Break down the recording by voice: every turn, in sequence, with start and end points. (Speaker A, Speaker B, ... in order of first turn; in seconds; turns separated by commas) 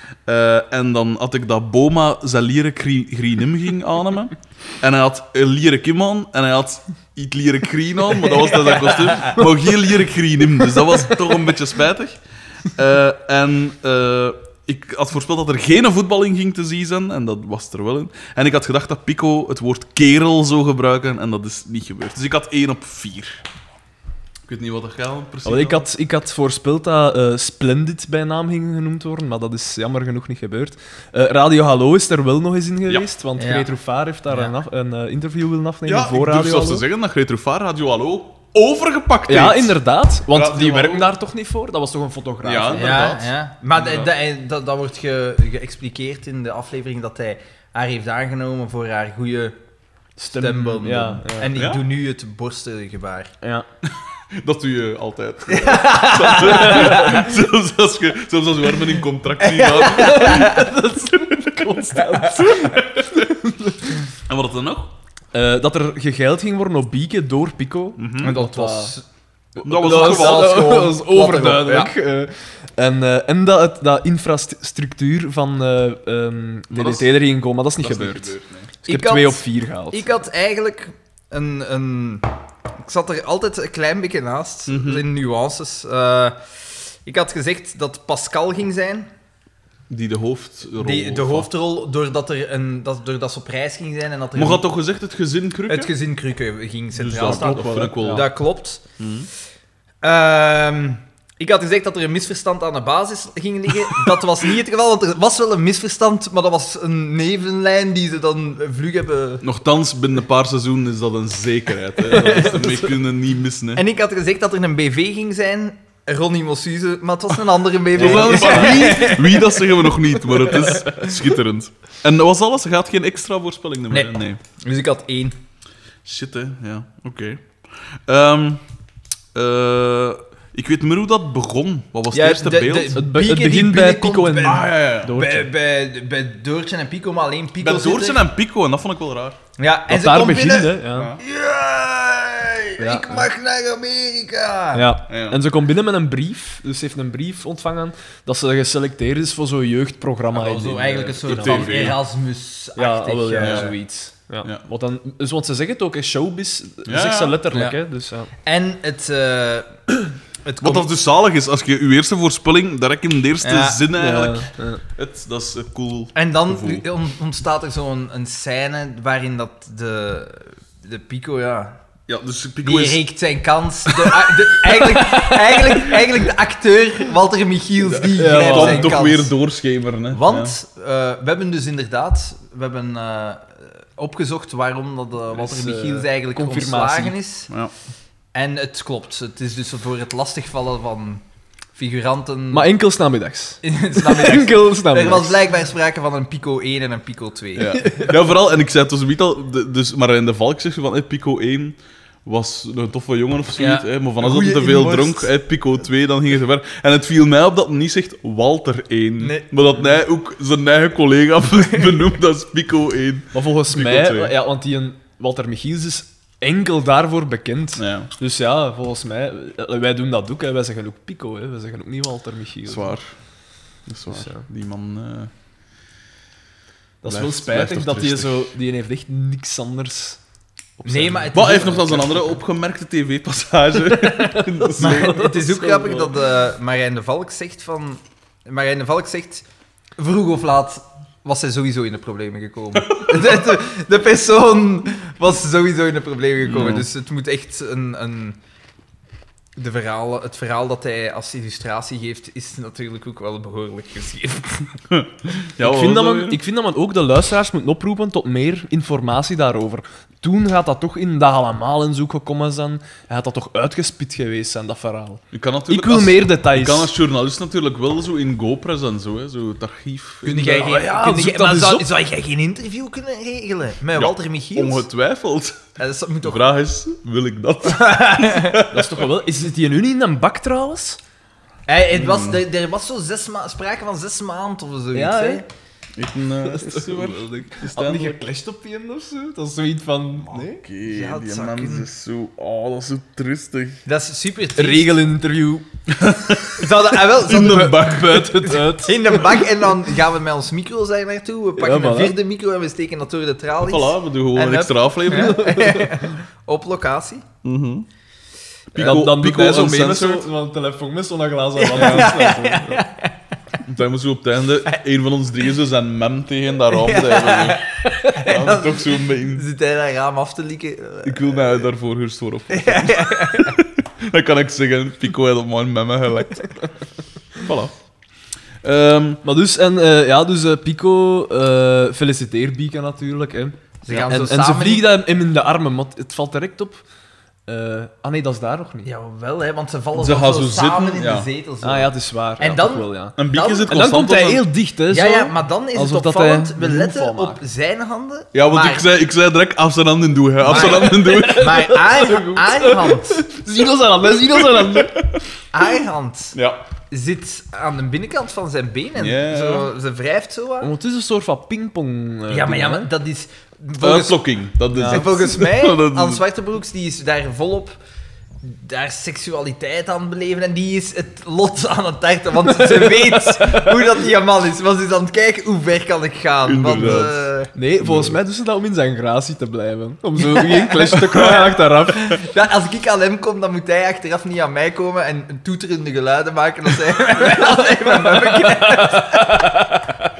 Speaker A: 0.2-23.4, Speaker B: 8.3-9.4, Speaker A: 24.4-25.9, Speaker C: 25.4-36.8, Speaker B: 33.4-33.7, Speaker B: 34.3-34.5, Speaker A: 35.9-39.8, Speaker C: 39.3-43.2, Speaker A: 40.3-41.1, Speaker A: 42.4-44.1, Speaker B: 42.7-49.6, Speaker C: 50.2-51.5, Speaker B: 50.3-53.3, Speaker A: 51.5-51.8, Speaker C: 53.4-53.7, Speaker A: 53.8-63.3, Speaker B: 55.5-57.3, Speaker B: 59.4-60.7, Speaker C: 60.2-63.9, Speaker A: 64.3-64.9, Speaker C: 65.3-68.9, Speaker A: 68.0-68.3, Speaker B: 68.2-69.0, Speaker C: 69.5-80.0, Speaker A: 69.6-70.7, Speaker B: 69.7-71.9, Speaker A: 76.7-77.2, Speaker A: 77.8-78.7, Speaker B: 78.9-82.3, Speaker B: 82.8-86.4, Speaker A: 84.7-85.0, Speaker B: 87.0-89.1, Speaker A: 89.9-91.5, Speaker B: 90.8-94.7, Speaker A: 94.3-95.9, Speaker B: 95.7-98.8, Speaker A: 96.9-98.3, Speaker C: 97.2-98.3, Speaker A: 99.0-99.3, Speaker B: 100.0-109.4, Speaker A: 109.4-113.8, Speaker B: 112.1-112.9, Speaker B: 113.8-119.7, Speaker C: 118.0-119.0, Speaker A: 118.0-124.4, Speaker C: 120.8-121.1, Speaker B: 123.9-125.3, Speaker A: 126.0-128.6, Speaker A: 129.3-133.0, Speaker B: 132.1-138.2, Speaker C: 132.9-135.5, Speaker A: 134.4-135.2, Speaker A: 137.6-139.4, Speaker B: 139.6-144.9, Speaker C: 139.9-141.1, Speaker A: 140.9-141.2, Speaker C: 142.8-143.3, Speaker C: 144.7-152.0, Speaker A: 145.1-145.4, Speaker B: 150.3-153.8, Speaker A: 151.2-152.0, Speaker C: 152.8-158.3, Speaker A: 153.4-153.7, Speaker A: 156.8-157.4, Speaker B: 158.4-159.7, Speaker B: 160.4-160.9, Speaker A: 160.6-166.8, Speaker B: 163.4-163.8, Speaker C: 163.9-164.8, Speaker B: 166.1-171.8, Speaker A: 172.1-173.0, Speaker B: 172.6-179.3, Speaker A: 173.9-175.2, Speaker A: 177.9-180.5, Speaker C: 178.1-178.9, Speaker B: 180.1-187.5, Speaker C: 185.3-187.1, Speaker B: 188.3-191.2, Speaker B: 191.7-192.7, Speaker C: 192.5-195.4, Speaker B: 193.6-197.7, Speaker A: 197.6-214.3, Speaker C: 197.7-198.2, Speaker B: 203.6-205.3, Speaker B: 209.2-209.6, Speaker C: 213.3-222.9, Speaker A: 217.8-218.1, Speaker A: 222.7-223.1, Speaker A: 223.8-225.3, Speaker C: 224.1-224.4, Speaker C: 227.0-230.2, Speaker A: 227.1-228.5, Speaker C: 230.8-231.4, Speaker B: 230.8-232.3, Speaker A: 231.3-235.3, Speaker C: 233.9-236.1, Speaker B: 234.8-239.4, Speaker B: 240.0-248.4, Speaker A: 242.8-243.4, Speaker A: 246.4-246.9, Speaker B: 249.6-254.8, Speaker A: 254.9-256.4, Speaker C: 255.6-266.9, Speaker A: 265.3-270.7, Speaker B: 270.2-274.9, Speaker C: 270.3-271.9, Speaker A: 273.9-275.6, Speaker B: 275.8-276.4, Speaker A: 276.2-279.0, Speaker B: 277.6-278.6, Speaker C: 278.7-281.0, Speaker B: 281.7-285.4, Speaker A: 281.9-282.4, Speaker C: 284.9-285.4, Speaker A: 285.9-288.3, Speaker C: 286.4-290.6, Speaker A: 290.2-293.8, Speaker B: 290.8-291.9, Speaker B: 293.9-294.9, Speaker C: 294.6-295.6, Speaker A: 295.9-298.6, Speaker B: 296.6-297.8, Speaker C: 297.2-299.4, Speaker B: 298.7-307.3, Speaker C: 301.6-302.1, Speaker A: 303.6-305.5, Speaker C: 305.1-306.2, Speaker A: 307.4-307.9, Speaker A: 308.7-310.3, Speaker C: 308.8-312.8, Speaker B: 311.6-313.1, Speaker A: 311.7-312.2, Speaker A: 313.6-319.4, Speaker B: 316.7-321.6, Speaker A: 321.0-326.5, Speaker B: 322.5-323.6, Speaker A: 327.3-327.7, Speaker A: 328.6-329.2, Speaker C: 329.2-336.8, Speaker B: 333.8-334.9, Speaker C: 337.5-338.9, Speaker B: 338.9-343.8, Speaker A: 339.9-341.3, Speaker C: 341.6-347.4, Speaker A: 343.2-344.4, Speaker B: 344.9-348.9, Speaker A: 348.3-351.7, Speaker B: 350.4-353.2, Speaker C: 350.5-355.0, Speaker A: 354.2-355.2, Speaker B: 355.5-356.4, Speaker A: 356.3-356.6, Speaker B: 356.9-360.7, Speaker A: 358.9-359.7, Speaker C: 360.6-362.9, Speaker B: 362.3-367.8, Speaker A: 363.8-366.2, Speaker C: 364.7-365.1, Speaker B: 368.4-377.5, Speaker C: 372.5-373.8, Speaker A: 376.4-377.2, Speaker C: 377.5-382.2, Speaker A: 377.8-378.2, Speaker B: 380.2-389.4, Speaker C: 387.9-389.8